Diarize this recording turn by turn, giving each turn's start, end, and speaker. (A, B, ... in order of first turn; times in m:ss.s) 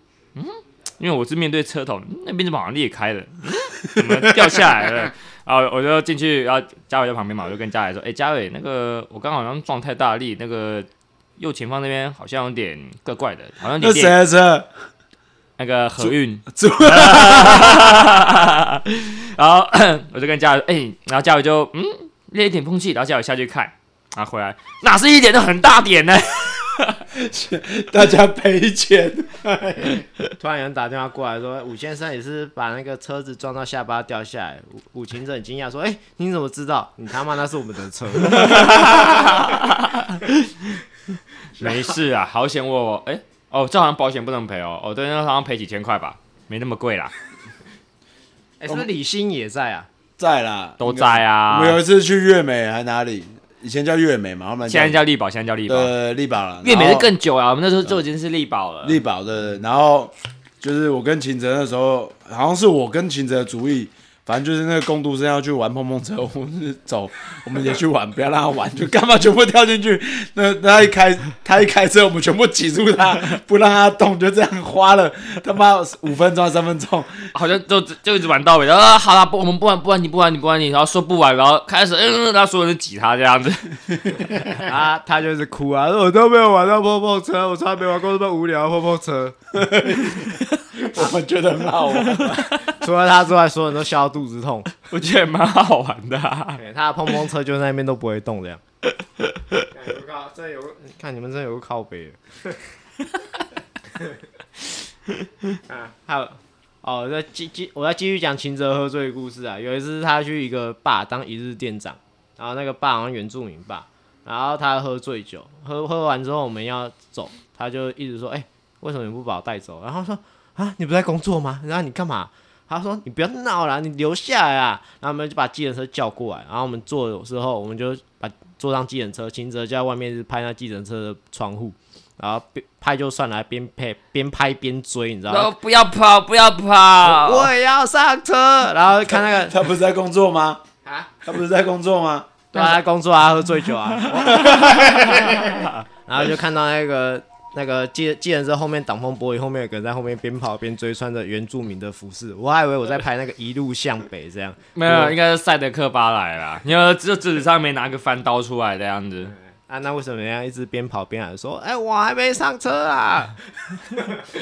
0:00.4-0:10.9 A
0:04.0-0:04.5 B
0:11.4-0:14.2 A
0:13.8-0:14.8 B
0:15.6-0:27.0 A
0:16.0-0:18.2 B
0:27.1-0:30.0 B
0:30.4-0:39.3 C
0:38.3-0:40.8 A
0:41.6-0:47.1 A
0:48.6-0:49.9 C
0:50.2-0:55.0 B
0:50.8-0:51.8 A
0:54.7-0:55.9 A
0:55.7-0:57.1 B
0:56.6-0:59.0 A
0:58.8-1:17.3 B
1:17.3-1:23.7 A
1:24.0-1:24.5 B
1:24.6-1:29.4 C
1:29.5-1:32.6 B
1:32.0-1:32.6 A
1:32.7-1:34.7 C
1:34.9-1:36.6 A
1:36.6-1:38.6 C
1:39.2-1:39.6 A
1:39.7-1:42.6 C
1:45.7-2:15.5 C
2:15.3-2:17.5 A
2:17.0-2:19.6 C
2:19.1-2:20.6 B
2:20.8-2:21.1 C
2:21.2-2:22.4 B
2:22.5-2:25.2 C
2:22.5-2:22.8 A
2:24.1-2:24.7 A
2:24.2-2:25.4 B
2:25.4-2:25.7 A
2:26.1-2:35.1 C
2:34.8-2:39.3 A
2:39.7-2:43.4 C